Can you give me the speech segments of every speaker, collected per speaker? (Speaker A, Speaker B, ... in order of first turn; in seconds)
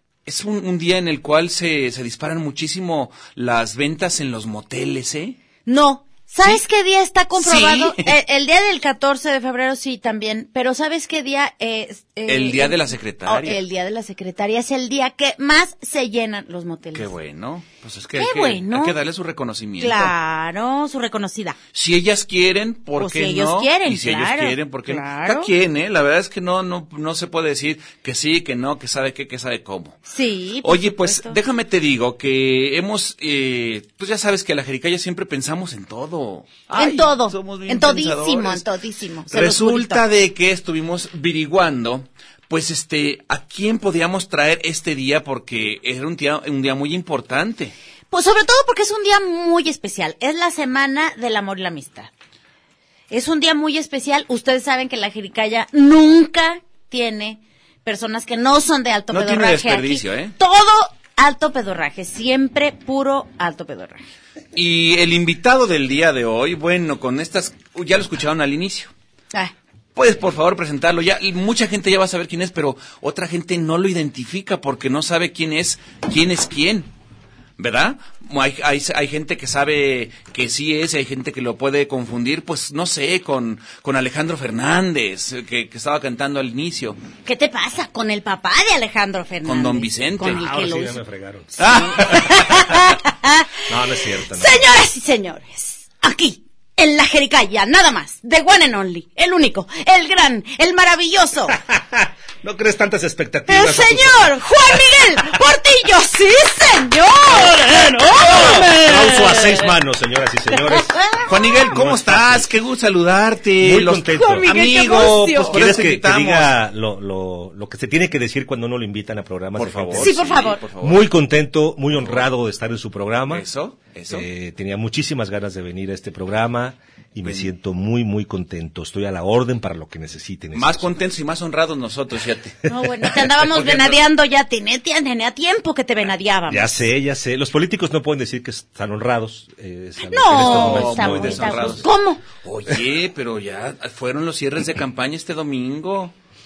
Speaker A: 0.2-5.3, 7.4-8.2, 12.3-13.6, 16.9-20.1, 21.7-30.0, 30.6-38.6, 39.3-47.7, 59.1-60.3, 64.5-68.9, 70.0-76.9, 77.6-87.0, 89.4-90.4, 91.6-92.7, 111.3-116.5, 119.5-121.0, 122.0-122.3, 123.3-124.3, 127.2-127.5, 130.5-132.6, 133.1-134.0, 140.3-141.9, 142.4-146.1
Speaker B: 5.7-17.1, 18.1-18.9, 19.8-21.6, 23.0-25.5, 30.1-31.4, 36.7-40.0, 48.1-52.1, 53.1-64.0, 87.2-91.0, 91.5-101.5, 103.5-109.7, 110.7-111.3, 114.1-115.6, 120.0-120.6, 132.7-136.7, 140.0-142.2
Speaker C: 90.2-92.6, 93.7-94.7, 101.5-104.4, 107.7-112.5, 113.6-120.2, 120.8-123.4, 124.1-130.9, 136.5-141.8